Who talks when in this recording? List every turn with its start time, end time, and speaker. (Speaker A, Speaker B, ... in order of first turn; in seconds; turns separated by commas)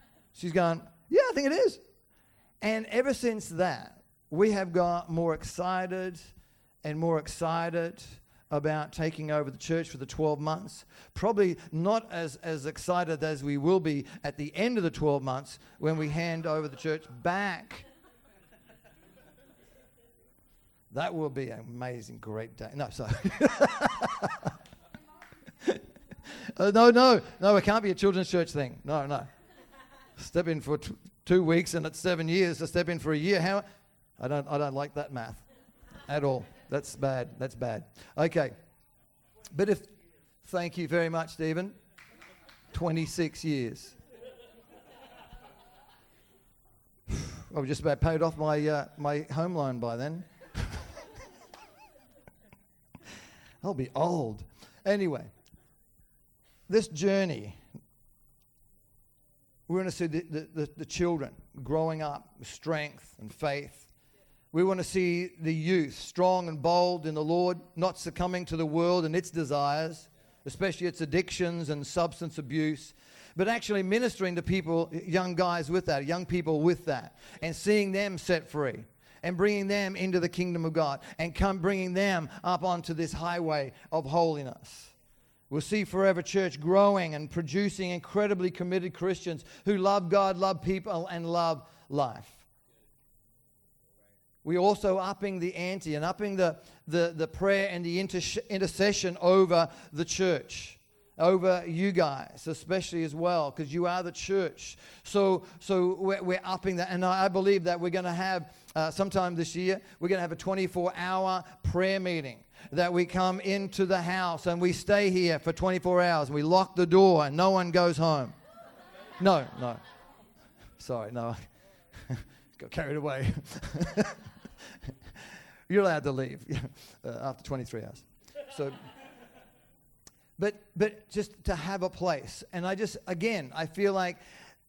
Speaker A: 0.3-1.8, Speaker A: 2.6-6.3, Speaker A: 6.8-17.9, Speaker A: 20.9-24.5, Speaker A: 25.6-29.3, Speaker A: 30.2-33.6, Speaker A: 34.2-35.4, Speaker A: 36.0-38.5, Speaker A: 39.5-39.9, Speaker A: 40.4-41.8, Speaker A: 42.7-43.9, Speaker A: 47.1-50.9, Speaker A: 53.6-55.3, Speaker A: 56.7-57.6, Speaker A: 59.7-63.9, Speaker A: 64.5-84.9, Speaker A: 85.5-92.4, Speaker A: 94.4-118.3, Speaker A: 119.2-119.8, Speaker A: 120.8-121.5, Speaker A: 122.0-124.3, Speaker A: 125.7-128.8, Speaker A: 130.4-134.2